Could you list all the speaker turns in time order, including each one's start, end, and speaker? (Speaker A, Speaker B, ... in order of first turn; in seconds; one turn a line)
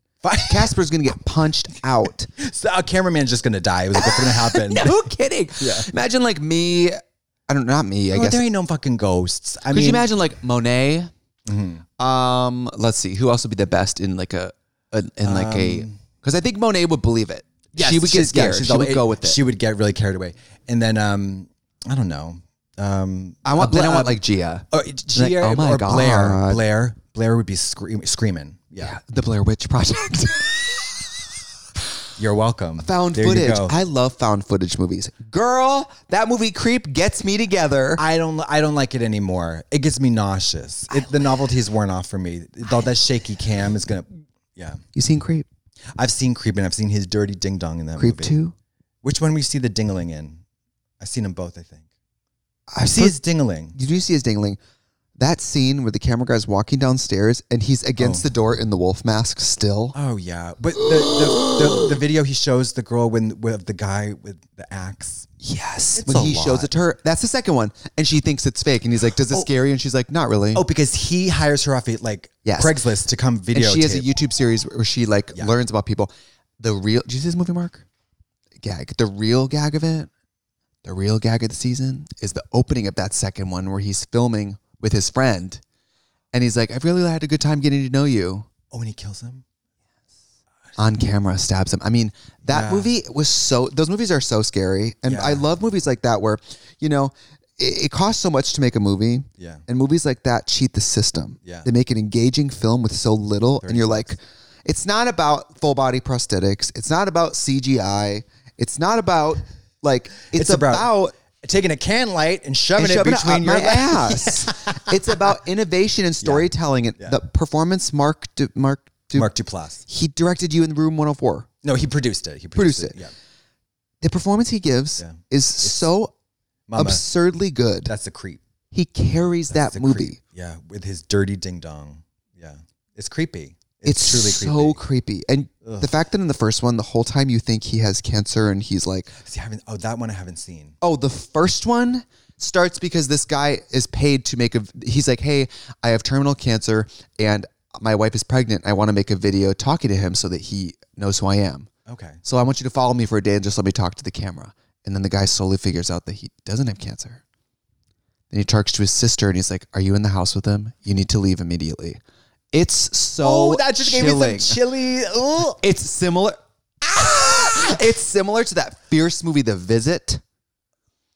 Speaker A: 0.2-0.7
Speaker B: 0.5-2.3
Speaker A: 2.4-5.0
Speaker B: 4.0-8.4
Speaker A: 5.6-5.9
Speaker A: 8.1-10.1
Speaker B: 9.7-11.1
Speaker A: 11.5-11.8
Speaker B: 12.0-19.4
Speaker A: 15.2-16.0
Speaker A: 17.8-29.0
Speaker B: 23.4-26.6
Speaker B: 28.8-31.1
Speaker A: 32.2-33.7
Speaker B: 32.8-38.0
Speaker A: 38.0-44.8
Speaker B: 45.0-45.5
Speaker A: 46.0-48.4
Speaker B: 48.0-48.5
Speaker A: 49.0-50.4
Speaker A: 51.0-51.9
Speaker B: 52.7-53.2
Speaker A: 52.8-53.8
Speaker B: 53.7-54.6
Speaker B: 55.2-60.0
Speaker A: 58.0-58.3
Speaker A: 60.0-65.3
Speaker B: 65.4-70.6
Speaker A: 66.0-66.7
Speaker A: 70.5-74.1
Speaker B: 72.5-72.8
Speaker B: 73.5-77.8
Speaker B: 78.6-80.1
Speaker B: 80.8-85.6
Speaker B: 86.3-88.5
Speaker A: 88.7-89.4
Speaker B: 90.8-111.1
Speaker A: 92.5-92.9
Speaker A: 95.1-95.5
Speaker A: 99.4-99.6
Speaker A: 103.6-104.2
Speaker A: 110.3-114.9
Speaker B: 112.8-119.3
Speaker A: 116.2-117.2
Speaker A: 119.1-119.8
Speaker B: 119.9-121.5
Speaker A: 121.6-123.1
Speaker B: 122.6-123.0
Speaker B: 124.0-126.1
Speaker A: 125.0-125.9
Speaker A: 126.7-127.0
Speaker B: 126.8-127.9
Speaker A: 127.9-128.4
Speaker B: 128.7-130.2
Speaker A: 129.5-134.8
Speaker B: 133.8-139.2
Speaker A: 135.6-135.9
Speaker A: 139.2-140.8
Speaker B: 140.8-151.7
Speaker A: 151.9-152.2
Speaker B: 152.2-157.2
Speaker B: 158.3-162.0
Speaker B: 162.5-164.6
Speaker A: 163.2-165.6
Speaker B: 165.6-170.2